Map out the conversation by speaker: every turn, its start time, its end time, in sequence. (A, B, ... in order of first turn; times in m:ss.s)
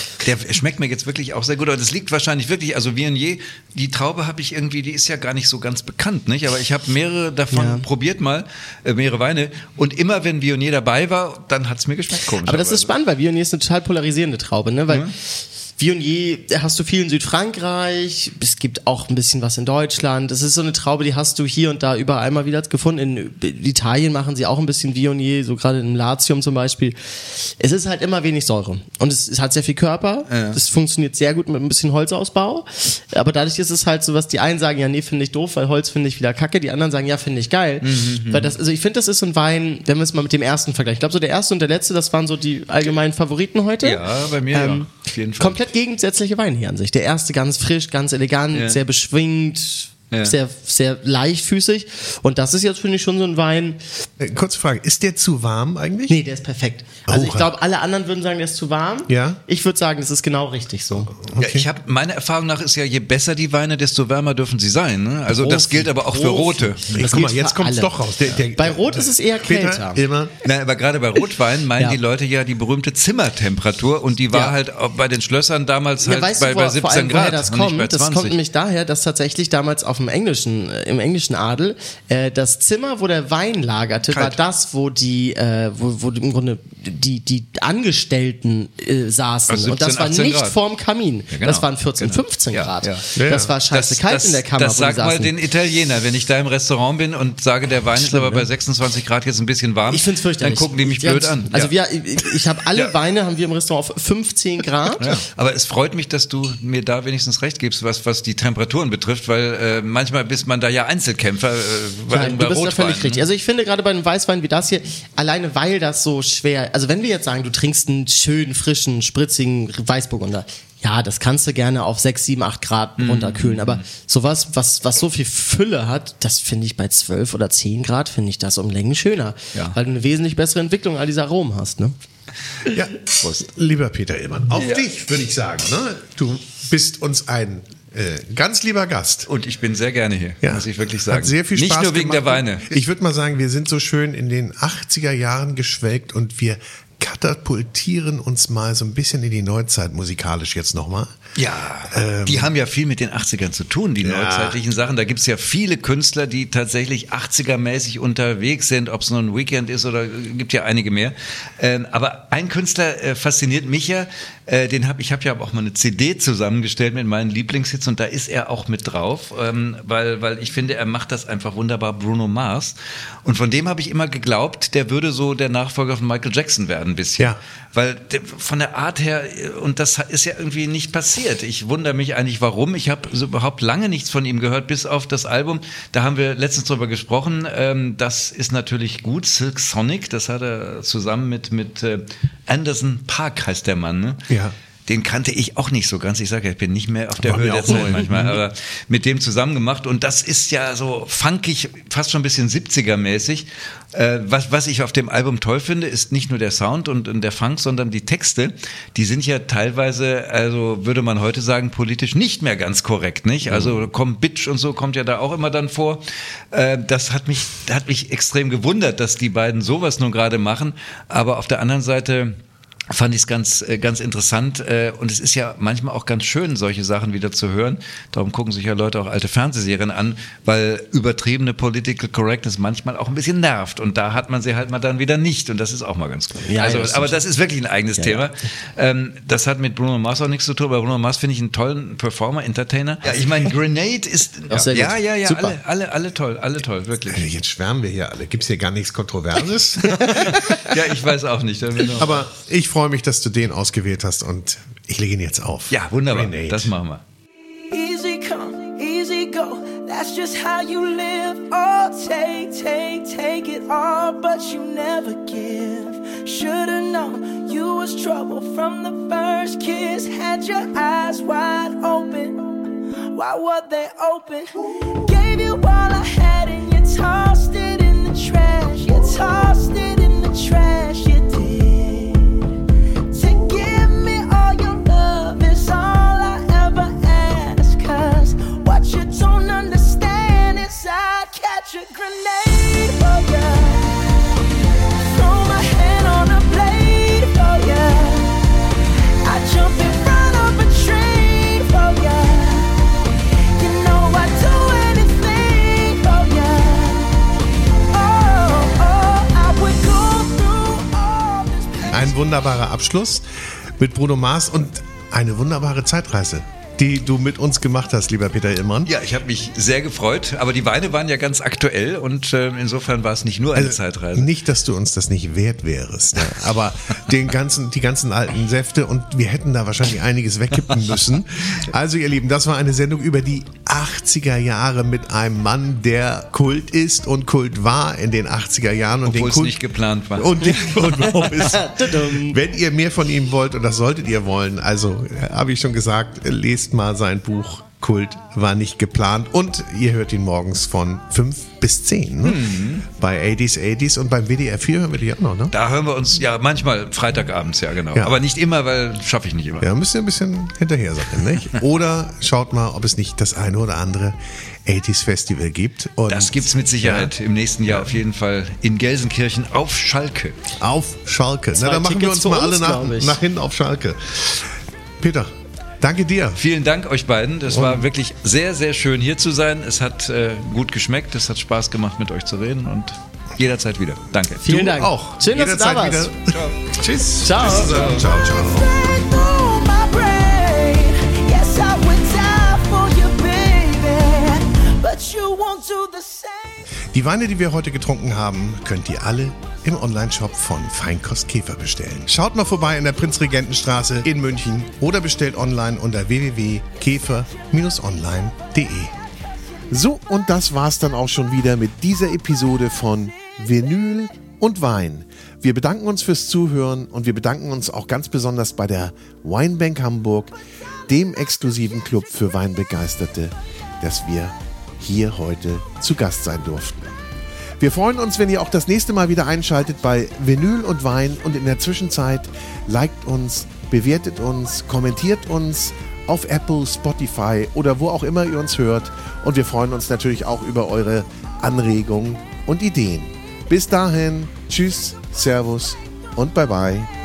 0:00.2-0:12.9 A
0:07.5-0:07.8 B
0:12.4-0:53.8 B
0:30.3-0:30.6 A
0:37.8-0:38.6 A
0:43.8-0:45.7 A
0:48.5-0:48.8 A
0:54.2-0:56.2 C
0:56.1-1:01.1 B
0:57.1-0:57.5 C
0:59.1-0:59.4 C
1:01.1-1:01.7 C
1:01.3-1:06.8 A
1:05.4-1:07.9 B
1:06.8-1:10.4 C
1:08.5-1:10.0 B
1:10.4-1:18.4 A
1:16.0-1:35.3 B
1:24.1-1:24.4 A
1:29.5-1:30.6 A
1:31.3-1:41.7 A
1:33.2-1:33.5 C
1:38.0-1:38.4 B
1:39.9-1:45.0 B
1:45.0-1:53.2 A
1:52.1-2:11.9 B
2:03.0-2:03.8 A
2:12.7-2:19.3 C
2:14.6-2:14.8 A
2:19.3-2:22.8 A
2:20.4-2:31.1 C
2:31.4-3:14.2 A
2:31.9-2:32.5 C
2:34.0-2:34.6 C
3:14.3-3:14.6 C
3:14.9-3:42.4 A
3:17.2-3:18.4 C
3:33.5-3:33.8 C
3:42.9-4:07.3 A
3:56.4-3:57.2 B
3:58.0-3:58.2 B
4:04.5-4:05.0 B
4:05.2-4:05.6 C
4:07.0-4:10.8 C
4:09.9-4:12.3 A
4:11.9-4:16.7 C
4:15.7-4:17.0 A
4:17.7-4:32.5 D
4:33.1-4:42.4 D
4:43.1-4:54.0 D
4:55.0-4:58.4 D
4:59.2-5:02.7 D
5:03.6-5:07.2 D
5:07.9-5:12.2 D
5:11.9-5:13.3 C
5:13.8-5:18.9 C
5:18.8-5:24.3 A
5:23.5-5:39.6 C
5:39.0-5:41.4 A
5:40.2-5:55.5 C
5:41.3-5:42.4 B
5:52.2-5:52.8 A
5:55.5-5:59.6 A
5:59.6-6:07.1 C
6:06.1-6:10.4 A
6:07.6-6:08.0 C
6:10.6-6:16.4 C
6:11.6-6:13.2 B
6:16.4-6:24.6 A
6:17.5-6:17.8 C
6:24.4-6:26.1 B
6:24.4-6:28.7 C
6:26.3-6:26.6 A
6:27.2-6:27.8 B
6:27.3-6:28.1 A
6:28.0-6:36.6 D
6:36.9-6:49.0 C
6:49.7-7:00.4 C
7:00.9-7:06.8 C
7:07.6-7:26.9 C